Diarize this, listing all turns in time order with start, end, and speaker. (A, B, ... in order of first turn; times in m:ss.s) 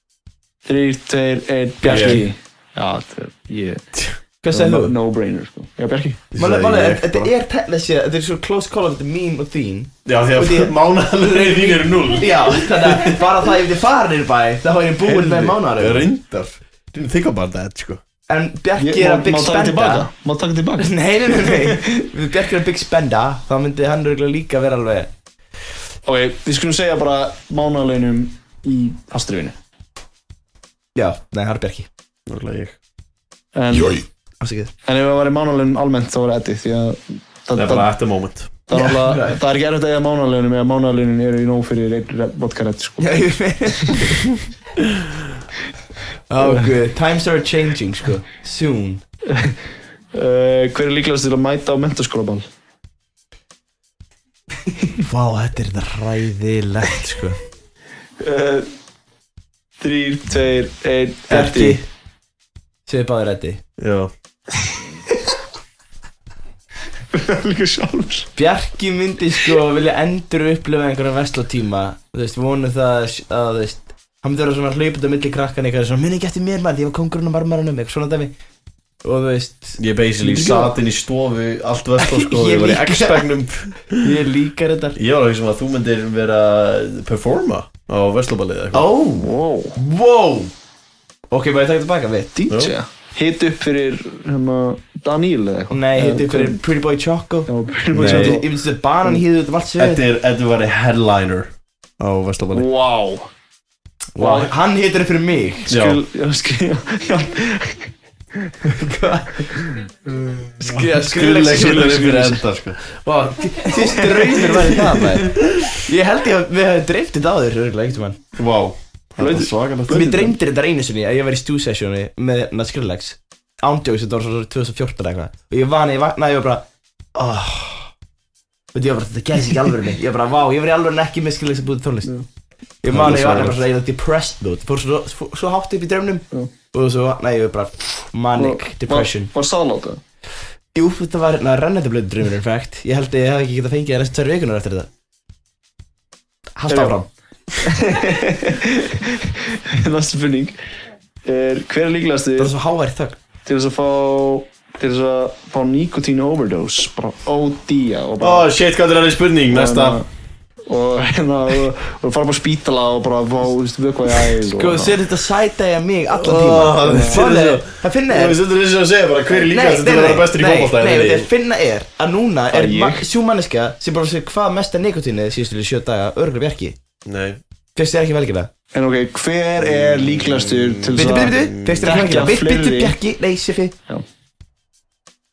0:00.6-0:03.8 A
0:01.8-0:02.3 B
0:01.9-0:02.2 C
0:04.4-0:05.0 B
0:04.5-0:06.2 A
0:06.3-0:07.3 C
0:06.4-0:16.1 B
0:10.0-0:13.3 C
0:15.1-0:18.0 C
0:18.3-0:20.1 B
0:18.8-0:21.8 A
0:20.8-0:25.1 B
0:26.0-0:29.6 A
0:30.9-0:31.9 B
0:32.3-0:32.8 C
0:33.6-0:34.0 A
0:34.4-0:34.7 B
0:34.8-0:37.9 A
0:37.6-0:38.5 C
0:38.6-0:44.0 A
0:38.7-0:39.4 B
0:43.0-0:44.2 B
0:46.3-0:49.0 B
0:46.4-0:46.7 A
0:50.1-0:52.5 A
0:54.9-0:57.4 B
0:58.2-0:58.7 A
0:59.8-1:01.8 A
1:01.3-1:01.8 B
1:02.8-1:03.6 B
1:03.8-1:04.1 C
1:07.1-1:08.3 A
1:08.4-1:18.3 B
1:19.0-1:19.8 B
1:19.8-1:24.1 C
1:20.2-1:20.7 A
1:22.0-1:23.3 B
1:23.9-1:25.0 B
1:24.9-1:28.8 C
1:28.7-1:30.5 B
1:29.1-1:29.8 A
1:31.3-1:32.3 B
1:32.3-1:36.6 A
1:35.7-1:40.0 B
1:37.5-1:38.4 A
1:37.9-1:38.4 C
1:39.8-1:42.6 C
1:42.5-1:43.3 A
1:44.1-1:45.7 B
1:44.2-1:44.5 A
1:45.7-1:48.7 A
1:45.7-1:46.0 C
1:48.7-1:49.9 B
1:50.6-1:52.4 B
1:50.8-1:53.5 C
1:51.6-1:52.4 A
1:53.2-1:58.2 B
1:53.7-1:54.6 A
1:54.1-1:55.7 C
1:58.3-2:00.2 C
1:59.2-2:00.3 A
1:59.9-2:06.6 B
2:07.1-2:07.9 B
2:08.7-2:12.1 B
2:12.8-2:19.3 B
2:12.8-2:13.6 C
2:18.3-2:20.0 A
2:20.7-2:24.9 B
2:26.6-2:27.1 B
2:26.7-2:27.0 A
2:27.6-2:30.6 A
2:31.2-2:32.5 A
2:32.4-2:33.2 B
2:33.4-2:38.5 A
2:38.2-2:40.0 C
2:39.5-2:40.0 A
2:40.7-2:45.0 A
2:44.4-2:48.4 B
2:46.1-2:51.3 C
2:46.8-2:47.2 A
2:49.3-2:56.8 B
2:52.5-2:53.1 A
2:57.0-2:57.4 C
2:57.8-2:58.5 B
2:58.7-3:03.0 A
2:59.7-3:02.0 C
3:00.9-3:03.7 B